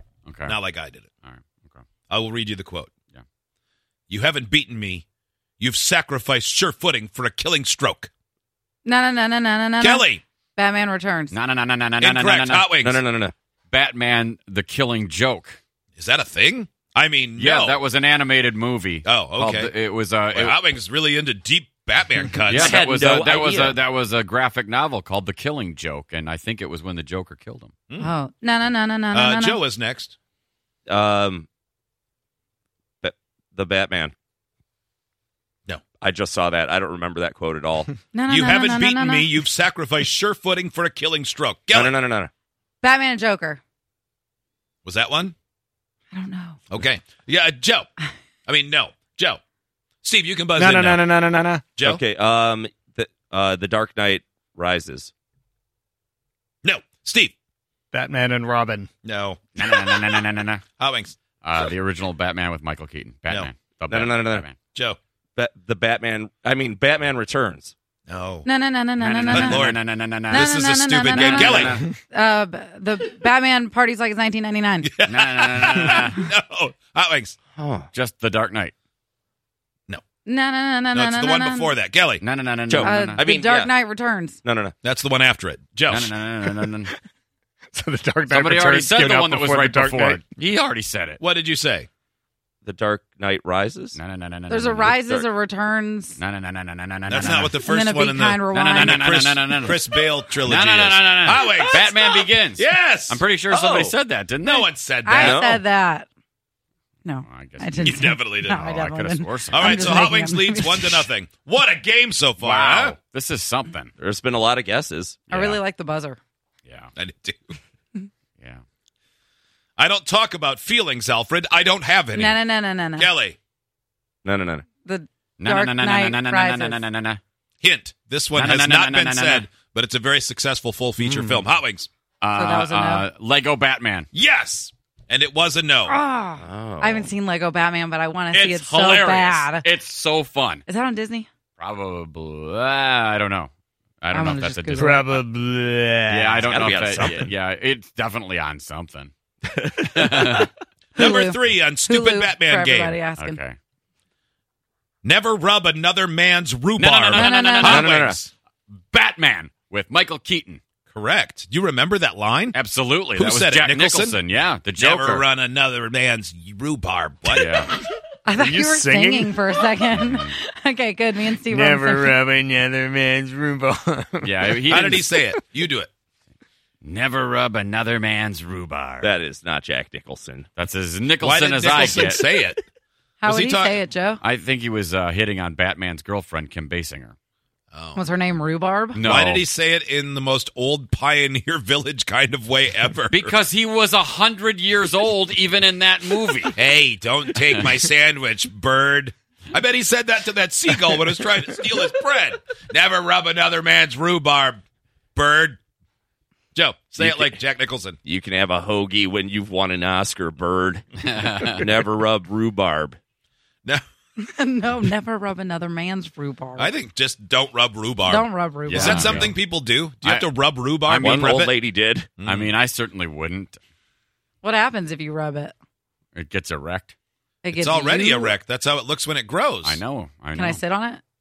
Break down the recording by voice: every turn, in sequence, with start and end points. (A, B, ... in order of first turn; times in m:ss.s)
0:00.2-0:00.6 A
0:00.5-0:01.1 B
0:01.2-0:01.8 A
0:02.1-0:02.9 B
0:04.1-0:05.0 B
0:05.6-0:08.1 B
0:08.8-0:11.3 C
0:09.8-0:10.2 B
0:11.3-0:12.7 A
0:12.0-0:13.0 B
0:12.8-0:13.3 D
0:13.7-0:15.6 A
0:16.0-0:17.8 B
0:17.4-0:20.6 A
0:19.0-0:19.7 B
0:20.3-0:22.7 B
0:22.4-0:27.8 A
0:22.5-0:23.8 D
0:28.0-0:29.6 C
0:29.1-0:30.2 B
0:30.9-0:31.5 D
0:33.0-0:34.1 D
0:36.0-0:37.9 D
0:38.1-0:39.4 C
0:38.3-0:41.9 B
0:41.7-0:42.3 D
0:42.8-0:43.6 C
0:44.8-0:45.3 B
0:46.1-0:46.7 C
0:46.7-0:47.9 B
0:48.5-0:49.4 B
0:50.0-0:51.1 B
0:50.6-0:51.6 E
0:51.0-0:55.1 D
0:51.8-0:52.0 B
0:56.6-0:57.3 B
0:57.9-0:58.9 E
0:59.0-0:59.7 B
0:59.6-1:00.6 A
1:00.8-1:01.2 B
1:01.4-1:04.6 A
1:03.9-1:04.5 D
1:04.7-1:05.0 B
1:05.4-1:07.7 D
1:08.1-1:08.5 B
1:08.4-1:09.6 C
1:09.0-1:10.5 A
1:09.3-1:09.8 B
1:10.3-1:14.9 C
1:10.3-1:11.8 B
1:11.1-1:11.9 A
1:11.6-1:11.9 E
1:14.8-1:17.4 B
1:15.0-1:16.2 A
1:17.6-1:17.9 D
1:17.9-1:18.7 A
1:20.2-1:21.8 C
1:20.9-1:22.2 B
1:22.2-1:23.3 A
1:22.7-1:23.7 D
1:22.8-1:24.4 C
1:24.4-1:24.7 D
1:24.8-1:26.1 B
1:25.9-1:26.9 A
1:27.7-1:30.2 E
1:28.3-1:31.2 A
1:31.2-1:31.9 B
1:32.6-1:34.0 D
1:33.9-1:35.0 A
1:34.5-1:36.2 C
1:36.2-1:37.6 A
1:37.1-1:41.9 B
1:37.6-1:39.0 C
1:38.5-1:44.7 A
1:42.6-1:43.2 B
1:43.5-1:44.0 D
1:44.4-1:45.4 B
1:44.5-1:46.1 C
1:45.1-1:45.6 D
1:47.0-1:51.1 C
1:47.2-1:50.0 A
1:47.8-1:48.6 B
1:49.5-1:53.0 B
1:52.4-1:53.9 A
1:54.0-1:55.3 D
1:55.3-1:55.6 A
1:55.3-1:56.2 C
1:56.7-1:56.9 A
1:57.0-1:57.6 B
1:59.8-2:02.4 B
2:02.1-2:03.1 C
2:03.0-2:03.4 B
2:04.2-2:04.7 D
2:04.8-2:06.8 C
2:05.4-2:07.2 A
2:07.6-2:11.9 B
2:08.4-2:09.5 A
2:11.0-2:11.4 D
2:12.2-2:14.1 A
2:12.3-2:13.1 C
2:14.1-2:16.0 B
2:15.8-2:19.7 C
2:16.4-2:17.1 D
2:18.3-2:19.3 B
2:19.6-2:20.6 A
2:20.7-2:21.3 C
2:21.6-2:25.2 A
2:24.1-2:25.1 C
2:24.7-2:26.7 E
2:26.1-2:29.1 A
2:26.4-2:27.3 D
2:29.5-2:30.5 D
2:29.8-2:30.5 A
2:31.0-2:33.0 B
2:31.0-2:33.4 C
2:33.2-2:33.6 A
2:35.0-2:38.3 B
2:36.8-2:37.9 A
2:37.1-2:37.9 C
2:37.6-2:38.2 D
2:38.8-2:40.6 A
2:40.9-2:42.6 B
2:42.5-2:45.2 A
2:43.1-2:44.2 B
2:44.8-2:47.6 B
2:47.3-2:47.8 A
2:47.5-2:47.8 E
2:48.2-2:52.2 C
2:48.3-2:49.8 E
2:49.9-2:50.4 A
2:51.4-2:55.4 E
2:54.2-2:55.1 A
2:54.7-2:55.9 B
2:56.8-2:59.1 A
2:59.0-3:00.5 D
3:00.6-3:02.2 A
3:01.2-3:02.6 B
3:03.2-3:04.2 C
3:03.2-3:03.8 B
3:04.2-3:07.2 A
3:07.7-3:08.0 B
3:07.9-3:09.2 C
3:08.9-3:09.5 A
3:09.0-3:13.3 B
3:13.1-3:16.6 A
3:16.5-3:24.6 B
3:25.1-3:25.6 B
3:26.6-3:28.0 B
3:27.0-3:27.4 D
3:28.1-3:30.9 D
3:31.0-3:31.7 A
3:31.4-3:33.0 D
3:34.2-3:36.8 C
3:36.6-3:41.6 B
3:38.0-3:39.2 C
3:38.7-3:39.4 A
3:40.0-3:41.4 A
3:41.0-3:42.1 D
3:42.2-3:42.5 B
3:42.2-3:43.6 A
3:44.4-3:45.5 C
3:46.1-3:46.9 A
3:47.4-3:48.4 C
3:47.5-3:49.8 B
3:49.6-3:50.6 A
3:50.3-3:51.0 C